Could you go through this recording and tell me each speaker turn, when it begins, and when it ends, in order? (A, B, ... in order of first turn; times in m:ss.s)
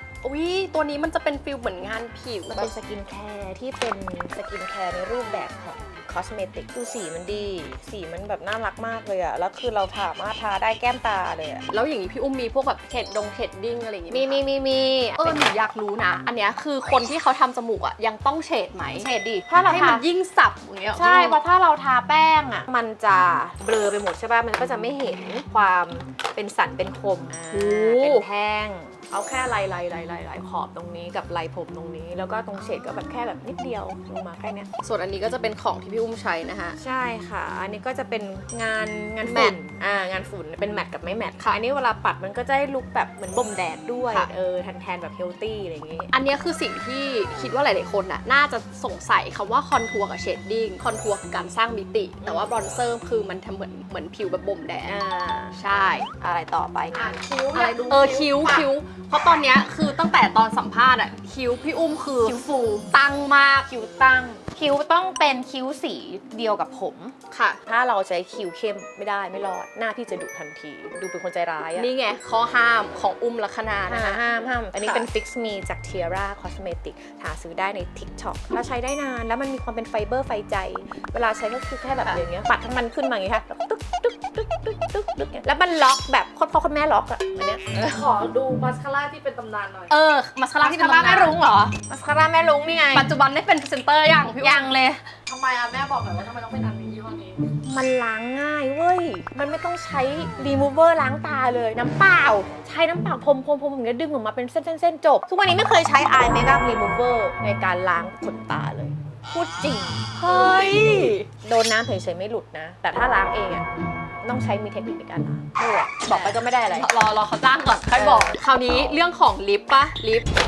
0:00.2-0:02.7 A
0:02.5-0:11.7 B
0:11.7-0:14.4 A
0:14.1-0:15.4 B
0:15.2-0:19.1 A
0:19.0-0:20.0 B
0:19.7-0:21.4 A
0:21.0-0:34.7 B
0:27.5-0:28.3 A
0:34.8-0:36.8 A
0:36.8-0:46.1 B
0:39.2-0:39.6 A
0:46.1-0:55.0 A
0:52.2-0:52.5 B
0:54.9-0:57.2 B
0:55.5-0:56.1 A
0:56.9-0:58.4 C
0:57.5-1:02.4 A
0:58.3-0:58.7 B
1:02.2-1:02.9 B
1:02.9-1:03.7 A
1:03.7-1:07.2 B
1:07.3-1:07.6 A
1:07.7-1:11.9 B
1:11.8-1:14.2 A
1:13.9-1:28.1 B
1:14.8-1:15.0 A
1:27.9-1:29.9 C
1:29.9-1:31.4 A
1:30.6-1:33.1 B
1:32.9-1:34.7 A
1:34.4-1:35.1 B
1:35.3-1:37.5 C
1:37.6-1:50.0 B
1:50.2-1:51.3 A
1:51.4-1:53.7 B
1:54.2-1:56.9 B
1:56.1-2:00.3 A
1:58.0-1:59.0 B